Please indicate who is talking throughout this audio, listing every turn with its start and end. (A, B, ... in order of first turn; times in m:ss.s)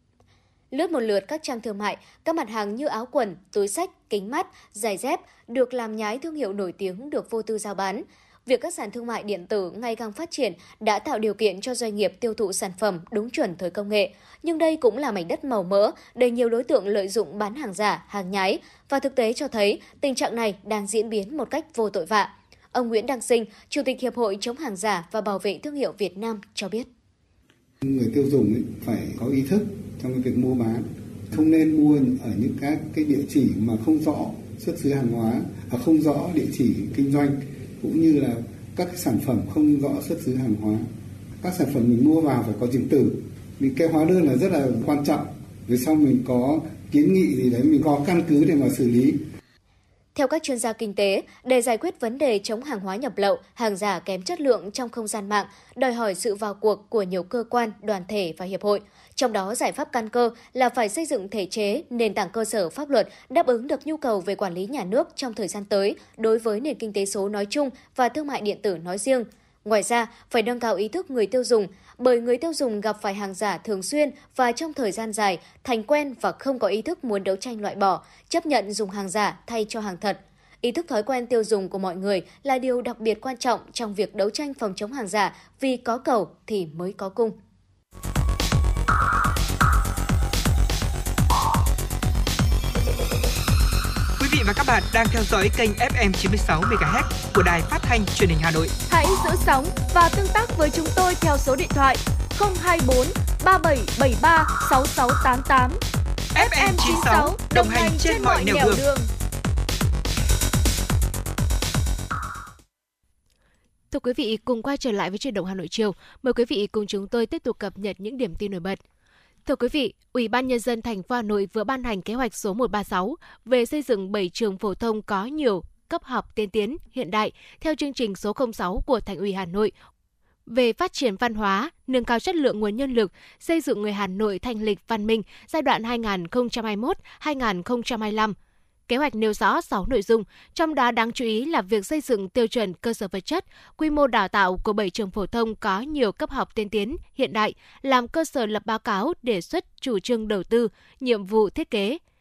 0:00.7-0:26.9 A
0:27.8-0:40.9 B
0:41.4-0:49.2 B
0:50.1-1:27.4 A
1:34.2-1:38.7 C
1:38.9-1:45.8 D
1:46.3-1:48.8 C
1:46.4-1:49.1 D
1:53.9-1:58.8 E
1:59.4-2:09.7 E
2:10.5-2:18.3 E
2:18.9-2:32.0 E